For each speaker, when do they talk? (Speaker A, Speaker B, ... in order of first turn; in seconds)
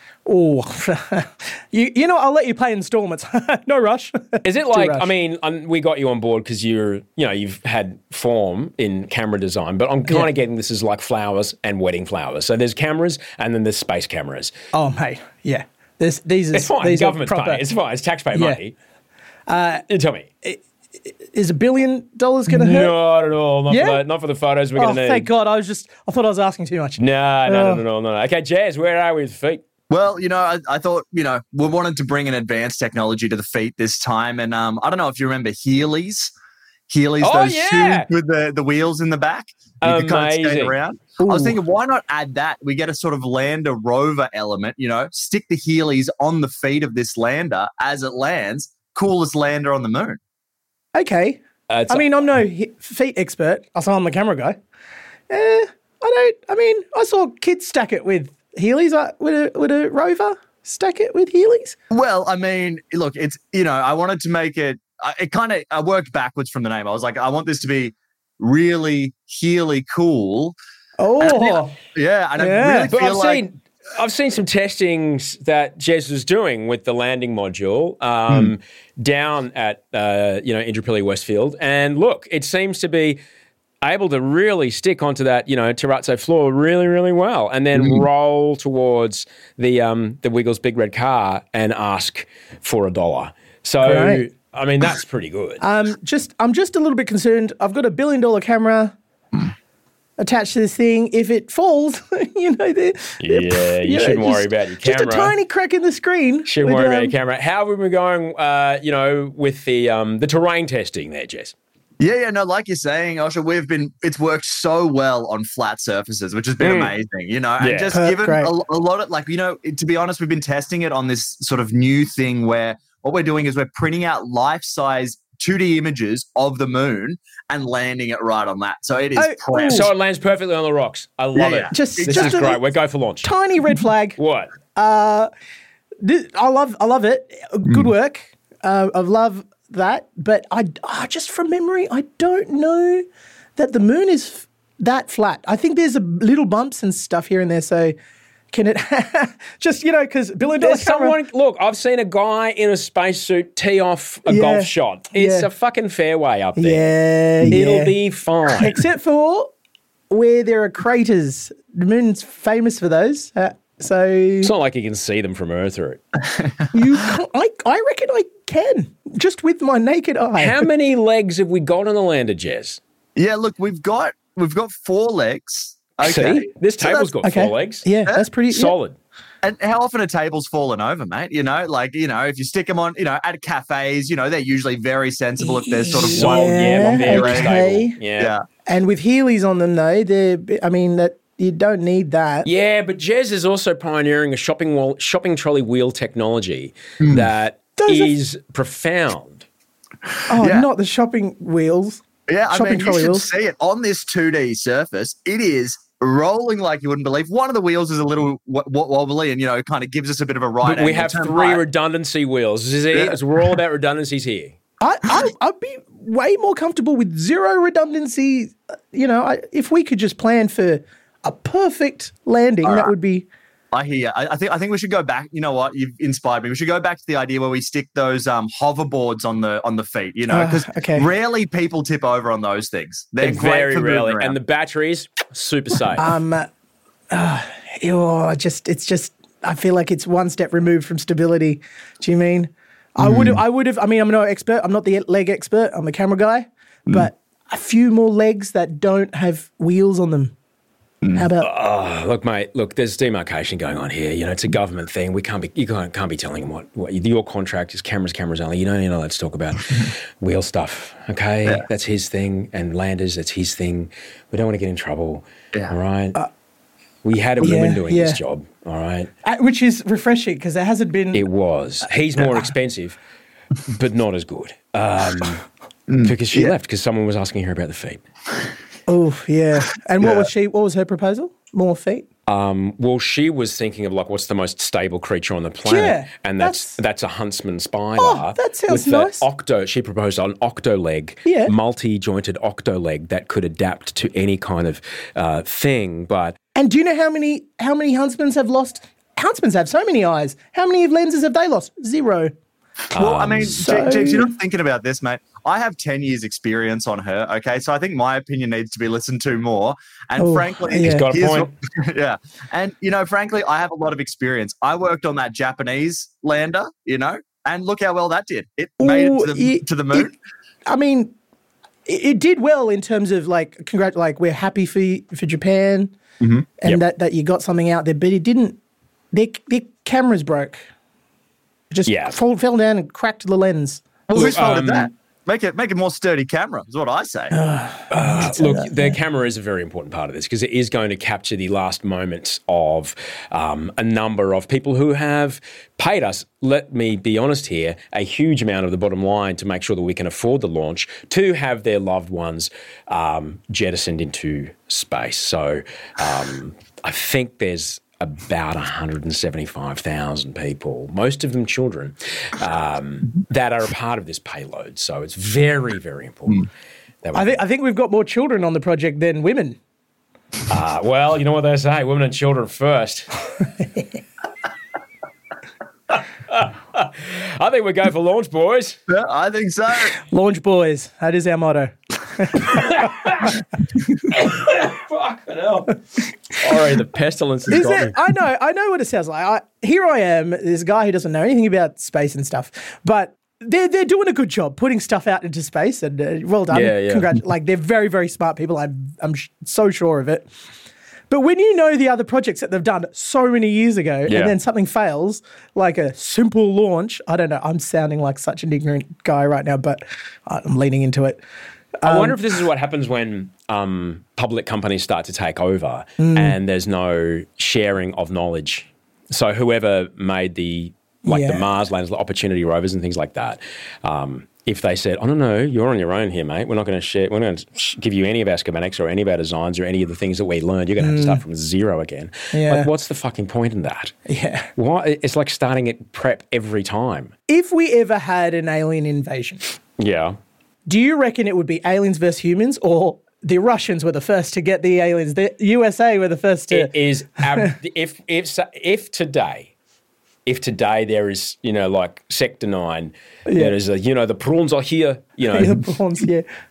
Speaker A: 0.3-5.1, 14.7-17.6, 18.3-18.6, 19.5-19.9, 21.2-22.9, 23.7-24.0, 24.8-27.8, 41.2-41.6, 50.9-54.6, 55.3-61.8, 71.0-71.8, 72.4-72.9, 93.8-94.2, 95.6-99.0, 100.2-107.2, 117.9-118.5, 129.2-129.9, 131.7-132.6, 133.2-134.2, 134.8-135.3, 136.0-143.1, 143.6-148.0, 148.5-151.2, 154.3-155.5, 156.6-157.9, 158.6-159.5, 160.1-164.5, 166.7-170.6, 177.2-178.8, 185.4-188.0, 188.7-192.5, 197.8-198.2, 200.3-203.3, 214.8-223.3, 230.3-231.1, 236.0-236.5, 237.1-250.3, 251.2-251.5, 267.4-268.2, 269.2-271.3, 278.9-282.1, 285.7-286.8, 288.0-289.3, 291.2-291.5, 296.6-302.3, 303.5-304.3, 310.2-311.1, 318.8-320.1, 320.7-321.1, 321.9-325.9, 326.6-328.6, 329.1-330.7, 331.7-333.8, 337.3-339.0, 367.1-369.6, 380.0-382.7, 387.5-400.3, 401.1-411.2, 411.8-412.2, 416.0-416.4, 421.1-421.5, 430.8-431.2, 432.3-432.7, 434.1-434.5, 437.3-439.4, 440.7-446.7, 447.3-447.5, 453.3-453.6, 455.3-456.3
Speaker B: 4.4-14.5, 16.5-18.7, 19.9-20.3, 22.5-25.3, 27.0-29.6, 37.2-38.1, 39.8-40.8, 51.7-52.1, 72.9-83.2, 83.8-95.6, 103.2-105.3, 106.5-111.5, 116.6-116.9, 117.6-118.0, 129.7-133.3, 134.2-134.6, 150.6-158.8, 164.4-166.0, 170.4-172.8, 176.0-177.9, 178.5-179.0, 185.9-188.3, 192.4-199.5, 210.6-214.6, 233.2-236.1, 251.4-266.2, 267.0-269.1, 271.1-273.0, 273.7-275.4, 276.0-278.0, 282.3-296.4, 302.9-303.6, 310.8-311.5, 331.9-332.2, 334.1-334.9, 337.9-366.5, 367.0-367.4, 370.5-373.1, 375.9-378.8, 382.4-383.4, 384.1-385.8, 386.3-388.0, 396.5-397.1, 404.1-404.4, 411.9-434.0, 434.6-437.1, 439.8-440.2, 446.5-449.5, 450.3-455.7
Speaker C: 29.9-36.3, 36.9-50.2, 61.9-70.6, 71.2-73.4, 112.0-129.9, 131.3-132.5, 173.2-177.1, 179.4-187.5, 188.2-188.4, 197.0-197.3, 200.4-200.7, 202.3-211.6, 212.9-213.2, 222.6-222.9, 223.7-234.4, 243.0-243.4, 275.9-276.5, 280.0-280.3, 302.9-320.1, 326.2-326.5, 334.1-337.4, 378.9-380.0